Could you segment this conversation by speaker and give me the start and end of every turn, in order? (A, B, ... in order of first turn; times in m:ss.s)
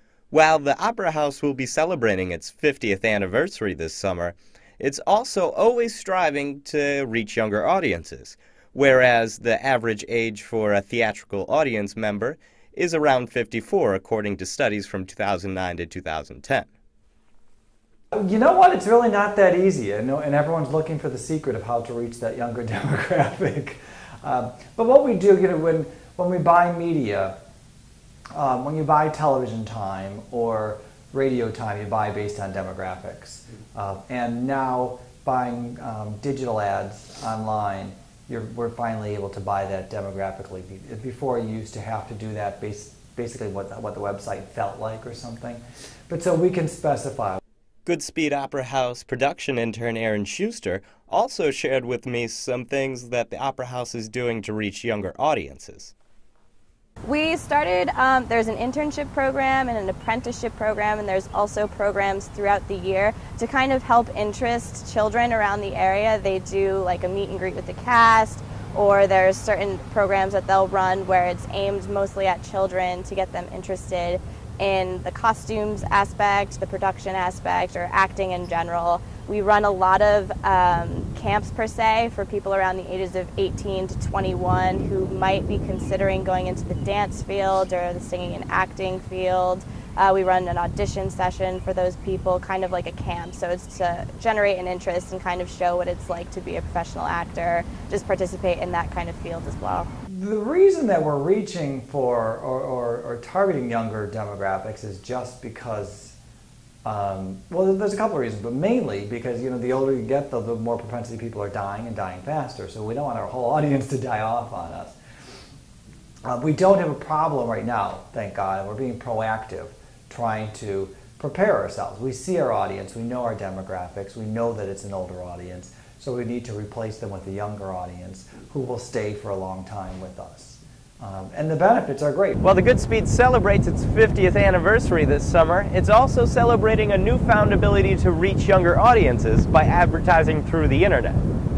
0:00.3-0:16.7 A
0:18.1-0:27.4 B
0:28.3-0:47.4 B
0:47.8-0:55.9 A
0:57.0-1:39.9 C
1:40.1-1:46.2 B
1:46.8-1:55.0 B
1:56.3-2:12.4 B
2:12.4-2:21.2 A